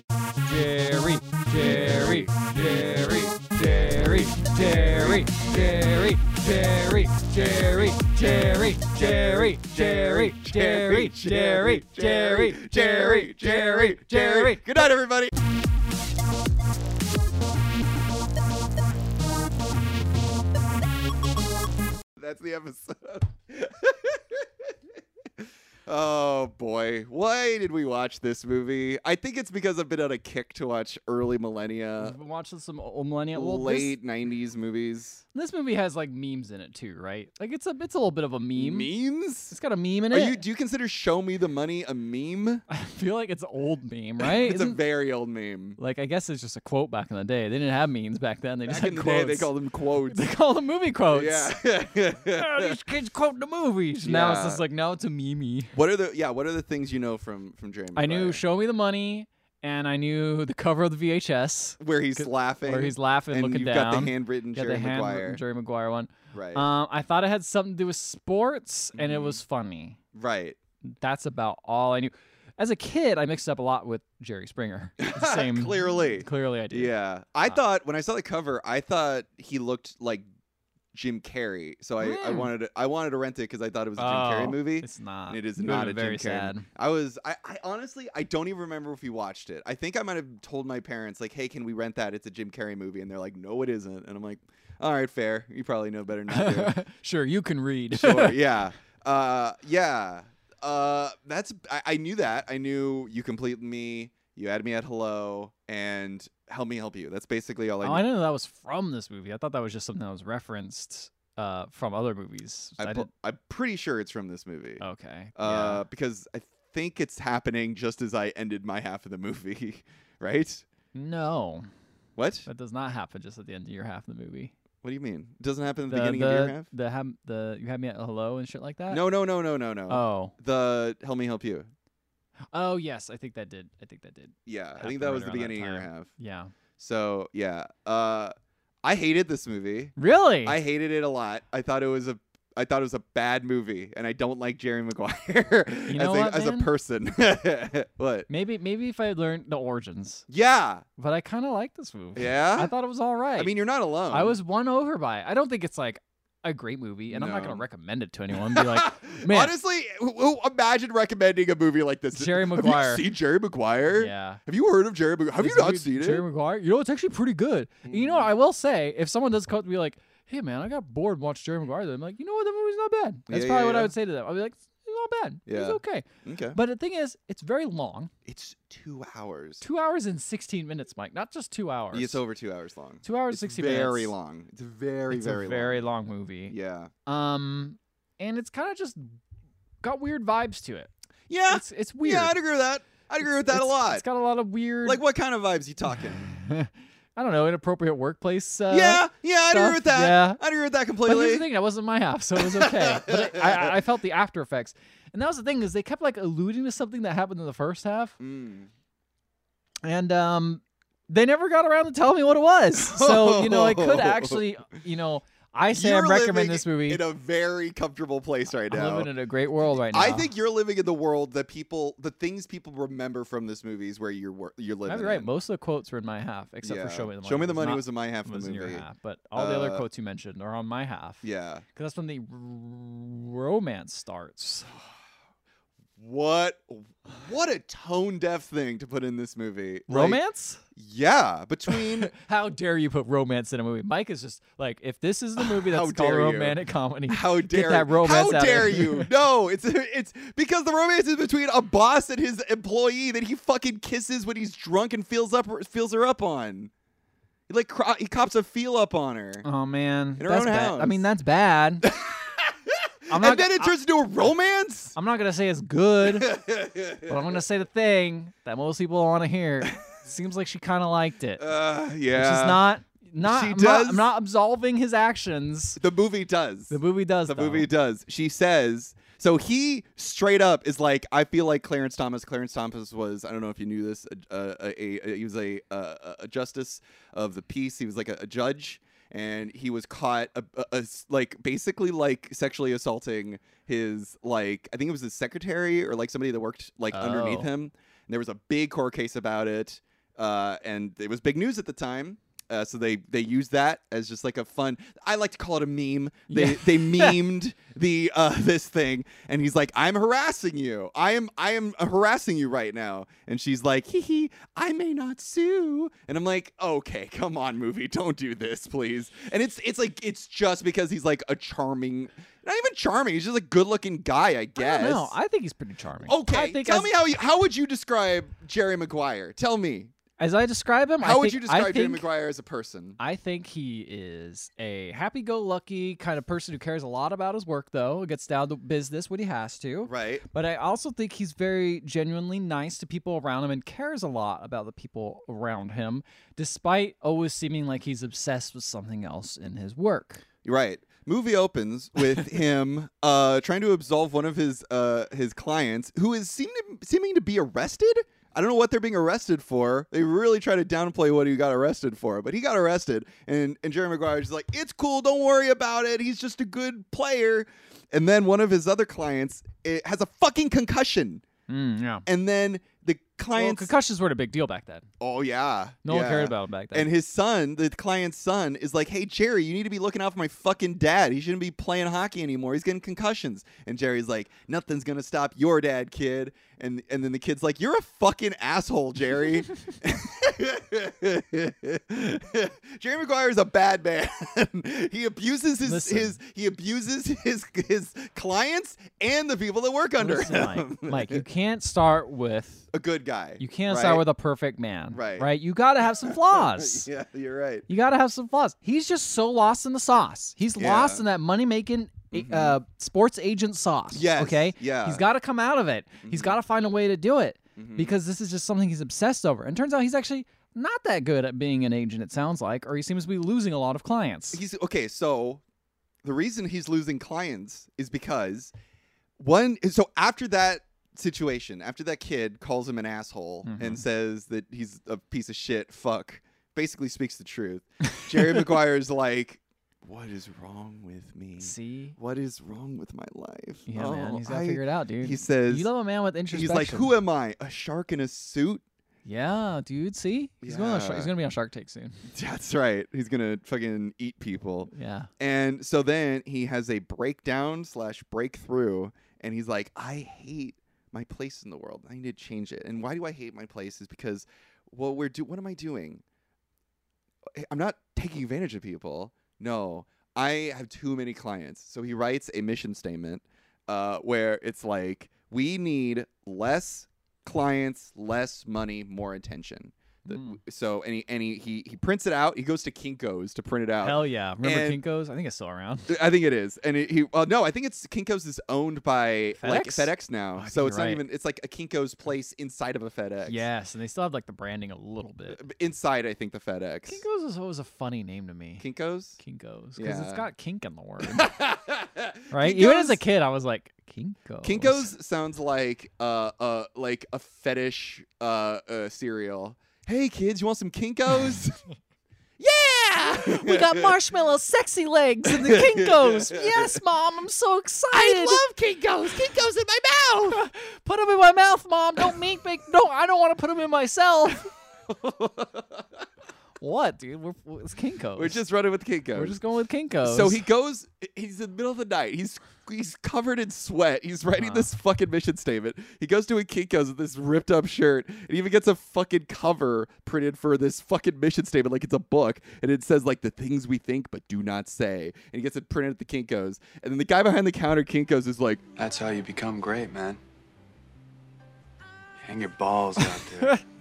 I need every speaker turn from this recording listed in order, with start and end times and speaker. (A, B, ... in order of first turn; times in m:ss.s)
0:00.4-0:14.8 A
0:09.0-0:15.3 B
0:22.2-0:24.4 B
0:25.9-0:32.2 B
0:32.0-0:34.0 A
0:33.3-0:35.2 B
0:35.3-0:38.9 A
0:38.6-0:39.6 B
0:39.5-0:40.4 A
0:40.1-0:42.6 B
0:42.7-0:44.8 A
0:44.2-0:45.8 B
0:45.8-0:49.5 A
0:48.6-0:50.3 B
0:50.1-0:51.5 A
0:51.1-0:52.8 B
0:52.2-0:55.7 A
0:54.0-0:54.6 B
0:55.7-0:58.4 B
0:58.0-1:10.0 A
1:01.8-1:05.4 B
1:06.3-1:06.7 B
1:08.9-1:09.4 B
1:10.1-1:10.6 B
1:10.9-1:16.9 A
1:15.0-1:20.2 B
1:20.9-1:36.8 B
1:22.0-1:22.5 A
1:24.0-1:26.7 A
1:36.3-1:38.4 A
1:37.9-1:48.0 B
1:47.8-1:53.1 A
1:52.8-1:54.8 B
1:54.8-1:55.8 A
1:55.4-2:00.6 B
2:00.9-2:01.7 A
2:02.2-2:02.5 B
2:02.4-2:04.5 A
2:04.8-2:06.7 B
2:05.9-2:09.0 A
2:08.9-2:11.7 B
2:09.9-2:10.3 A
2:12.5-2:16.5 A
2:14.5-2:16.1 B
2:16.8-2:28.3 B
2:20.0-2:20.6 A
2:25.9-2:26.7 A
2:28.3-2:30.2 A
2:30.3-2:30.8 B
2:31.0-2:33.5 A
2:32.1-2:32.7 B
2:33.4-2:34.4 B
2:34.1-2:39.5 A
2:37.1-2:37.6 B
2:38.4-2:46.2 B
2:42.1-2:43.0 A
2:43.9-2:44.4 A
2:45.4-2:58.1 A
2:47.9-2:48.2 B
2:53.3-2:53.9 B
2:55.4-2:56.6 B
2:58.2-2:59.6 B
2:59.6-3:02.2 A
3:01.9-3:05.8 B
3:03.0-3:04.1 A
3:05.1-3:06.5 A
3:06.5-3:06.9 B
3:07.0-3:09.2 A
3:09.8-3:10.9 A
3:11.3-3:14.0 B
3:11.5-3:12.4 A
3:13.2-3:15.0 A
3:14.8-3:16.3 B
3:16.0-3:20.4 A
3:18.7-3:21.5 B
3:21.0-3:28.1 A
3:22.4-3:23.7 B
3:28.2-3:28.7 B
3:29.8-3:37.0 A
3:32.8-3:34.4 B
3:35.7-3:39.1 B
3:38.6-3:40.3 A
3:39.7-3:45.3 B
3:44.8-3:51.2 A
3:46.6-3:48.8 B
3:49.4-3:49.8 B
3:51.2-3:51.6 B
3:51.7-3:54.7 A
3:56.0-4:00.2 B
3:59.9-4:00.6 A
4:00.8-4:02.1 B
4:01.7-4:09.1 A
4:05.4-4:06.6 B
4:07.1-4:16.7 B
4:17.5-4:19.4 B
4:19.4-4:21.8 A
4:20.2-4:21.0 B
4:21.9-4:24.9 B
4:23.1-4:23.7 A
4:24.9-4:26.3 A
4:26.1-4:27.3 B
4:27.1-4:31.5 A
4:31.4-4:32.6 B
4:32.1-4:35.8 A
4:33.2-4:34.1 B
4:35.8-5:25.1 B
4:36.7-4:37.7 A
4:56.9-4:57.5 A
5:06.3-5:07.2 A
5:24.6-5:26.9 A
5:26.0-5:29.9 B
5:30.2-5:32.0 A
5:31.0-5:33.0 B
5:33.0-5:50.2 A
5:39.8-5:40.2 B
5:50.4-6:11.2 B
6:11.5-6:12.0 A
6:12.0-6:13.7 B
6:13.3-6:14.9 A
6:15.0-6:41.2 B
6:15.8-6:16.9 A
6:35.6-6:36.2 A
6:40.0-6:42.7 A
6:42.7-6:44.0 B
6:43.4-6:46.9 A
6:44.9-6:45.3 B
6:46.0-6:47.7 B
6:47.7-7:04.4 A
6:50.6-6:51.0 B
6:52.1-6:52.6 B
6:53.9-6:55.0 B
6:56.0-6:56.4 B
6:57.6-6:58.0 B
7:04.3-7:05.4 B
7:06.0-7:08.5 B
7:09.2-7:25.7 B
7:13.4-7:13.8 A
7:18.2-7:18.5 A
7:21.4-7:22.0 A
7:23.6-7:26.9 A
7:26.3-7:28.6 B
7:29.0-7:32.0 A
7:30.4-7:31.1 B
7:32.1-7:46.0 B
7:34.7-7:35.1 A
7:47.4-8:04.8 B
8:00.1-8:00.4 A
8:03.8-8:05.9 A
8:05.9-8:13.4 B
8:09.4-8:11.0 A
8:13.2-8:15.4 A
8:15.3-8:17.0 B
8:16.9-8:18.6 A
8:18.6-8:19.2 B
8:19.2-8:21.3 A
8:19.8-8:20.3 B
8:21.0-8:23.0 B
8:22.3-8:24.9 A
8:24.4-8:31.6 B
8:32.4-8:33.9 B
8:33.2-8:38.4 A
8:35.3-8:36.8 B
8:37.9-8:40.4 B
8:40.3-8:44.5 A
8:44.9-8:45.8 B
8:46.6-8:48.4 A
8:48.2-8:49.4 B
8:49.1-8:50.4 A
8:50.0-9:08.6 B
8:54.4-8:54.7 A
9:08.8-9:10.2 C
9:12.2-9:13.6 C
9:13.0-9:13.6 A